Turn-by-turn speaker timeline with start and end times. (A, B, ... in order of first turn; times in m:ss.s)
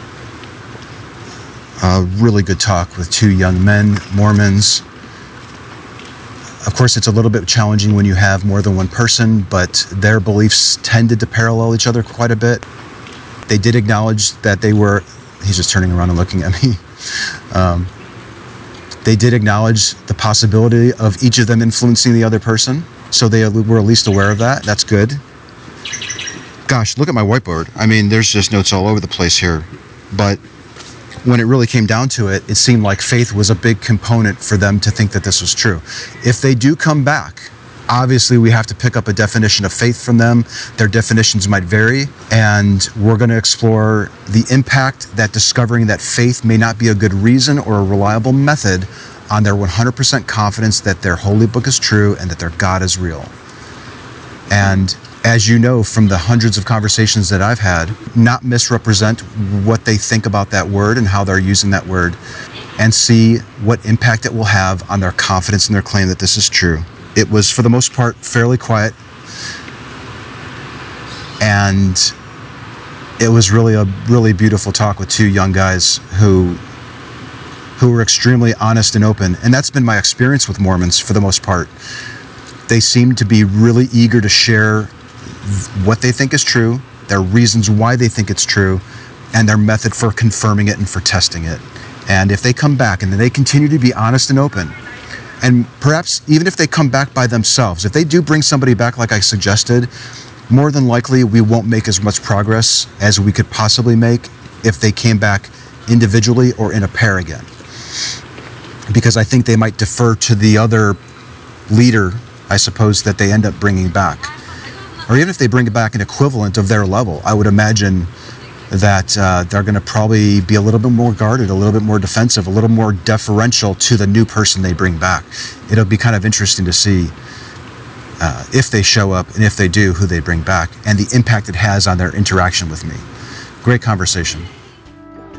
0:01.8-0:04.8 A
0:06.6-0:12.6 A
0:13.5-0:17.9 A
0:19.0-0:25.2 A
0:26.7-0:30.4 A
0:31.2-0:53.3 A
0:54.5-1:02.2 A
1:02.8-1:09.0 A
1:11.4-1:12.1 A
1:13.2-1:16.6 A
1:17.8-1:21.7 A
1:22.7-1:28.8 A
1:29.3-1:34.8 A
1:35.4-1:39.9 A
1:40.5-1:47.5 A
1:48.9-1:51.0 A
1:51.7-1:54.3 A
1:55.1-1:58.1 A
1:58.7-2:07.1 A
2:08.2-2:13.0 A
2:13.6-2:14.5 A